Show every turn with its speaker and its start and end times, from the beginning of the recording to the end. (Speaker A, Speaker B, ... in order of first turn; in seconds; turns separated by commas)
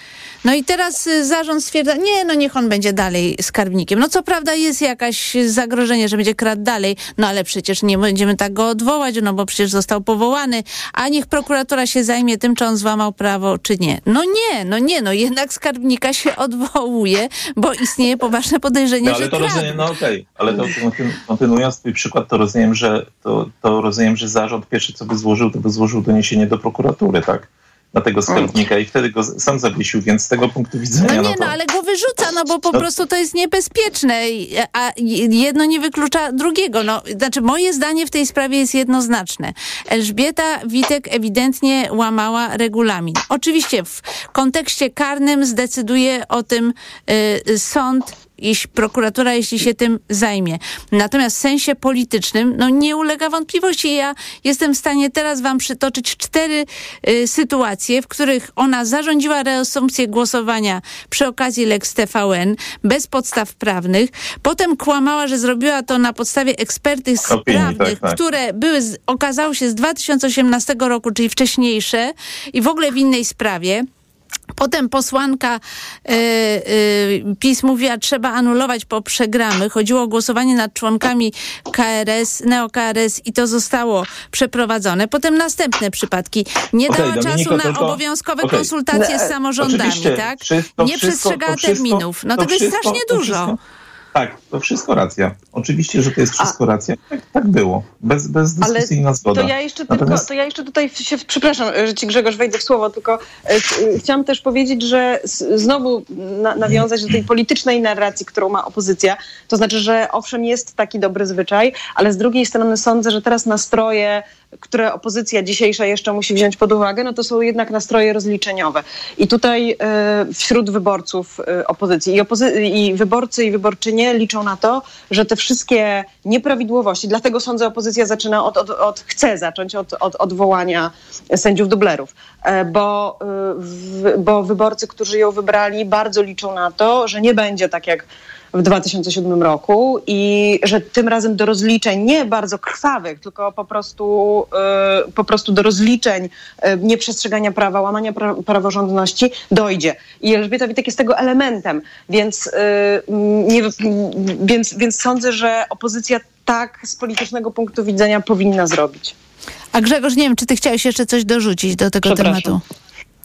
Speaker A: 0.4-19.9, Speaker B: 19.1-31.5, Speaker A: 31.0-73.9, Speaker B: 67.4-68.2, Speaker A: 74.6-93.5, Speaker B: 86.9-88.7, Speaker B: 89.6-93.6, Speaker B: 94.1-100.2, Speaker C: 98.6-159.1, Speaker A: 159.7-162.6, Speaker C: 162.1-162.6